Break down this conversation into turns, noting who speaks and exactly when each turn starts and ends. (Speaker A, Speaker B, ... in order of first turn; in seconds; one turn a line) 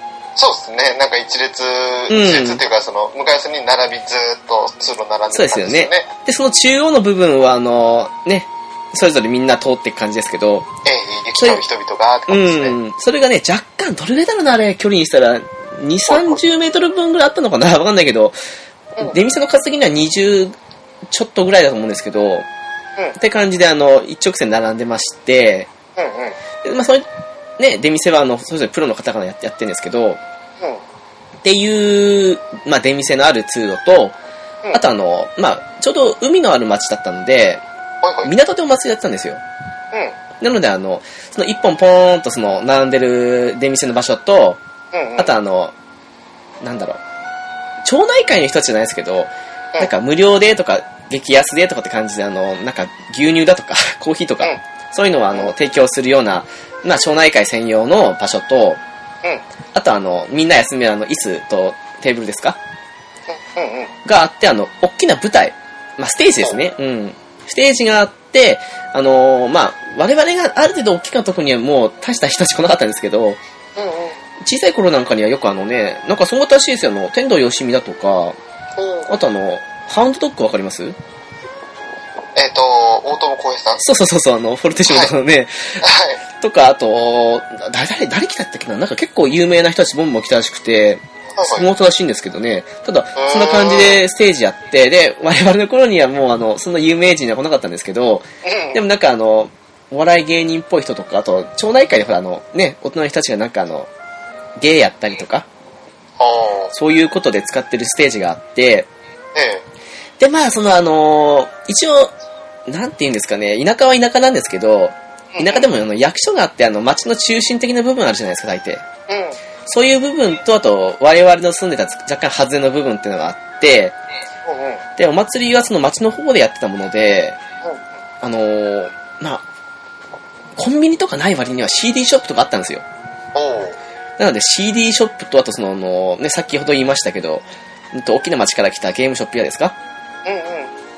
Speaker A: 0.3-6.1
Speaker B: 2.1-2.6
Speaker B: 5.3-10.7
Speaker A: 10.8-12.8
Speaker B: 11.4-11.6
Speaker B: 12.3-18.4
Speaker A: 16.1-16.4
Speaker B: 19.0-20.5
Speaker B: 21.1-22.4
Speaker B: 23.1-25.7
Speaker A: 25.9-26.4
Speaker B: 26.6-27.1
Speaker B: 27.6-30.2
Speaker B: 31.4-34.1
Speaker B: 34.7-37.6
Speaker A: 38.0-38.3
Speaker B: 38.2-39.4
Speaker B: 40.4-44.6
Speaker A: 44.9-45.3
Speaker B: 45.2-45.7
Speaker B: 46.6-47.0
Speaker B: 47.8-58.8
Speaker B: 59.7-62.6
Speaker A: 63.3-63.9
Speaker B: 64.0-73.4
Speaker A: 73.8-74.2
Speaker B: 74.4-78.3
Speaker A: 78.8-79.1
Speaker B: 79.1-81.0
Speaker A: 82.3-83.8
Speaker B: 83.8-85.8
Speaker A: 85.8-86.2
Speaker B: 86.4-103.9
Speaker A: 91.3-91.7
Speaker A: 93.2-94.0
Speaker A: 98.4-98.8
Speaker B: 104.6-105.5
Speaker A: 106.2-106.7
Speaker B: 106.7-108.9
Speaker A: 109.3-109.6
Speaker B: 110.2-112.1
Speaker B: 112.7-118.8
Speaker A: 115.3-115.7
Speaker A: 119.1-119.4
Speaker B: 119.6-124.0
Speaker A: 124.4-124.8
Speaker B: 125.0-127.4
Speaker B: 128.2-129.4
Speaker B: 130.6-132.8
Speaker A: 133.3-133.8
Speaker B: 134.2-139.8
Speaker A: 140.2-140.7